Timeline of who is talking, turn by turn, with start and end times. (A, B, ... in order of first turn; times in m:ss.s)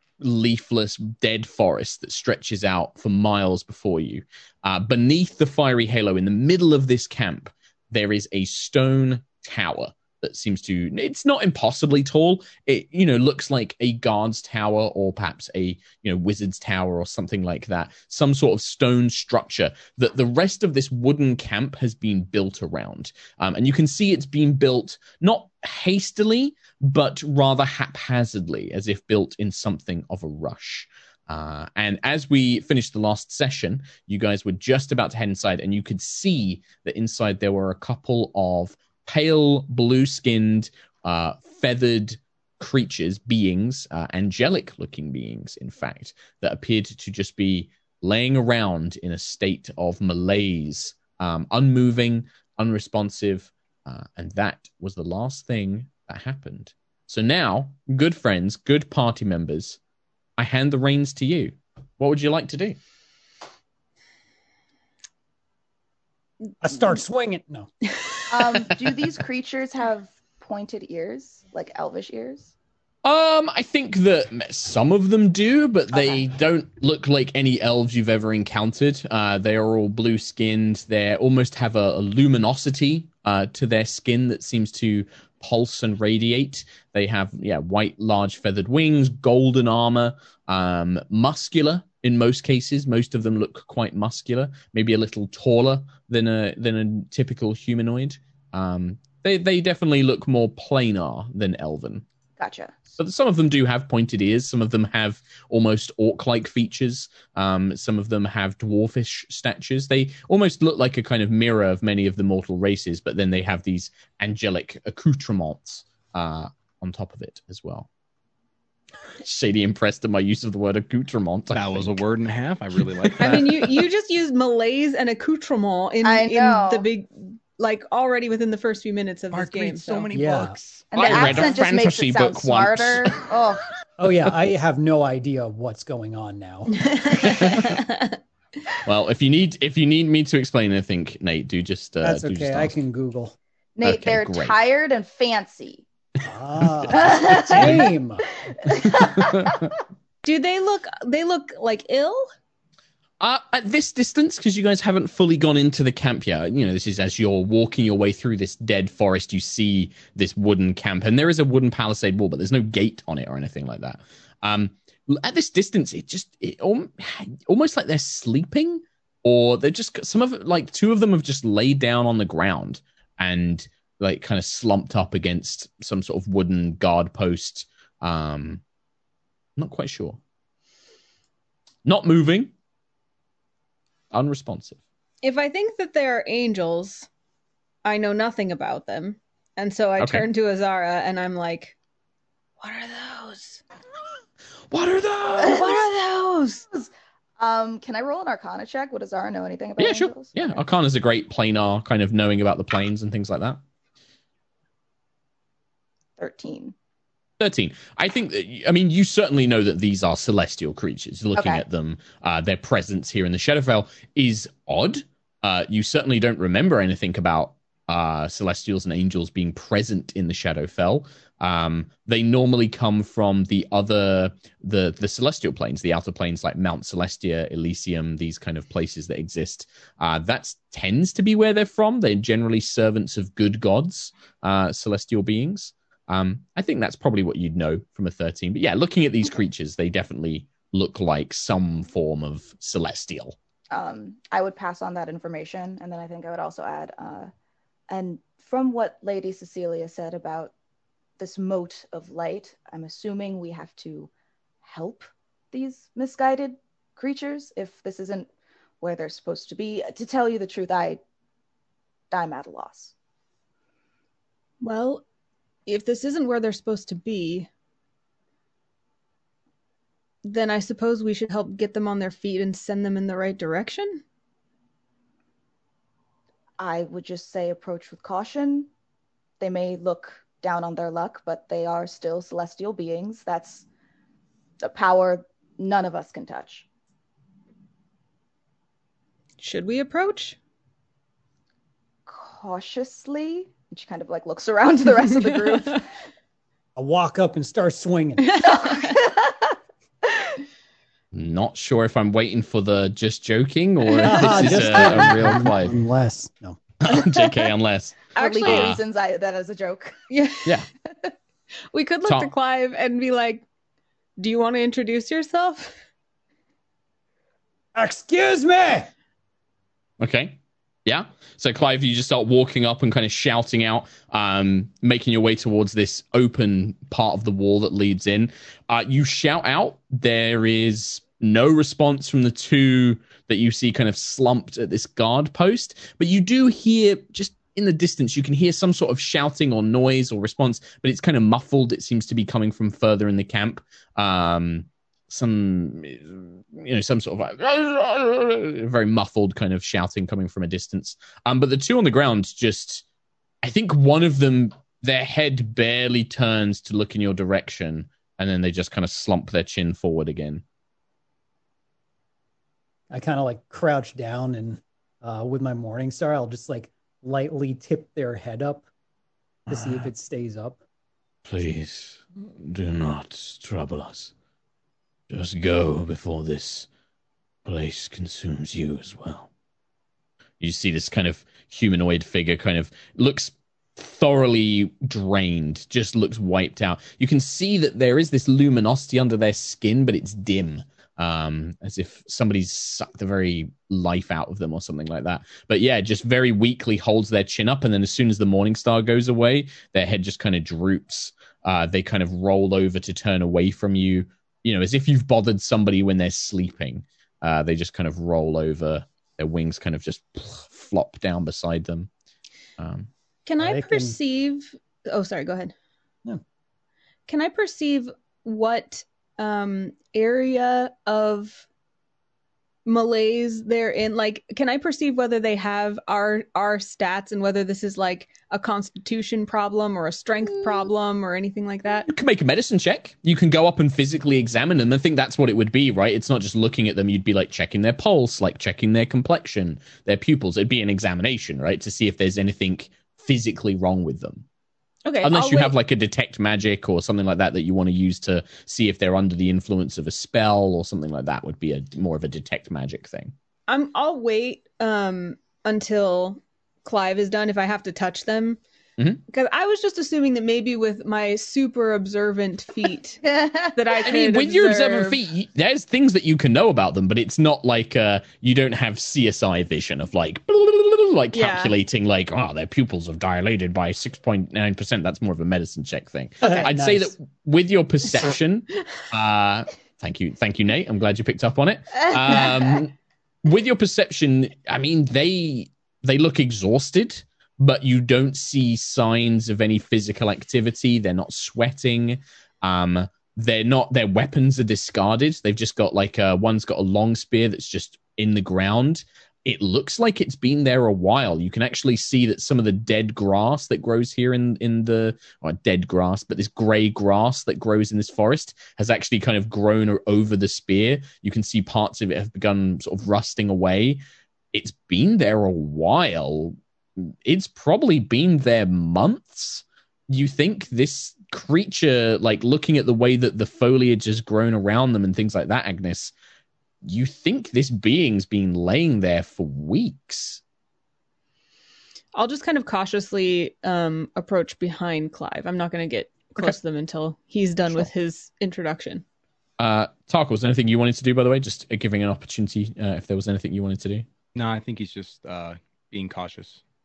0:00.2-0:59.8 A
1:00.4-1:02.8 A
1:06.6-1:07.7 B
1:08.0-1:08.6 C
1:08.3-1:12.5 D
1:13.0-1:42.0 A
1:15.9-1:16.2 D
1:42.4-1:42.7 D
1:43.0-1:57.9 A
1:59.2-2:02.0 A
2:01.5-2:03.7 E
2:03.0-2:03.7 A
2:03.2-2:10.1 C
2:06.0-2:06.9 D
2:09.3-2:11.4 E
2:10.1-2:10.6 B
2:10.9-2:13.6 D
2:10.9-2:13.3 A
2:14.0-2:16.8 B
2:16.7-2:18.2 C
2:17.3-2:17.6 A
2:18.8-2:22.8 A
2:22.0-2:23.4 B
2:23.8-2:25.9 D
2:23.8-2:24.6 A
2:26.2-2:28.3 B
2:26.9-2:27.9 D
2:27.6-2:27.8 A
2:28.6-2:29.7 D
2:28.9-2:29.7 A
2:30.2-2:32.3 C
2:33.2-2:58.6 A
2:59.6-3:00.2 A
3:01.8-3:02.5 A
3:04.1-3:04.8 A
3:05.2-3:07.1 C
3:07.8-3:11.8 C
3:10.0-3:10.3 A
3:12.6-3:13.6 C
3:14.7-3:15.8 A
3:15.3-3:16.7 C
3:16.7-3:20.6 D
3:19.8-3:23.6 A
3:26.2-3:26.7 D
3:27.4-4:03.4 A
3:31.4-3:31.6 D
4:03.7-4:07.3 D
4:07.9-4:10.5 D
4:11.2-4:14.1 D
4:14.6-4:18.3 D
4:18.8-4:21.0 D
4:22.1-4:22.9 D
4:24.6-4:25.0 C
4:25.7-4:27.5 C
4:30.2-4:34.0 C
4:36.6-4:38.7 D
4:39.4-4:43.6 D
4:44.6-4:46.7 D
4:49.4-4:50.4 C
4:52.1-4:55.8 D
4:55.3-4:55.8 C
4:56.8-4:58.4 B
4:58.3-4:58.9 C
4:58.5-4:59.5 D
5:01.1-5:05.8 A
5:04.0-5:05.4 C
5:04.0-5:06.6 B
5:06.8-5:08.8 A
5:08.2-5:08.7 C
5:08.2-5:10.0 D
5:10.1-5:10.6 C
5:11.7-5:13.4 C
5:12.0-5:12.3 A
5:14.2-5:15.8 C
5:17.8-5:18.9 B
5:20.0-5:52.8 A
5:53.4-6:00.4 A
6:02.9-6:08.6 B
6:09.5-6:09.9 A
6:09.5-6:10.6 B
6:11.3-6:14.1 A
6:15.1-6:16.7 A
6:17.4-6:19.3 A
6:20.4-6:51.9 A
6:52.6-6:52.9 A
6:53.3-6:55.5 C
6:53.4-6:54.0 B
6:57.1-7:01.5 C
7:02.6-7:11.9 C
7:11.9-7:24.2 A
7:24.8-7:25.5 C
7:25.0-7:33.1 A
7:33.5-7:38.4 C
7:39.1-7:45.0 C
7:43.0-7:43.6 D
7:43.8-8:33.8 A
7:51.1-7:51.5 C
7:56.2-7:56.9 B
8:34.3-8:45.9 A
8:46.6-8:50.2 A
8:52.0-8:58.8 C
8:59.4-9:03.9 A
9:04.2-9:06.4 E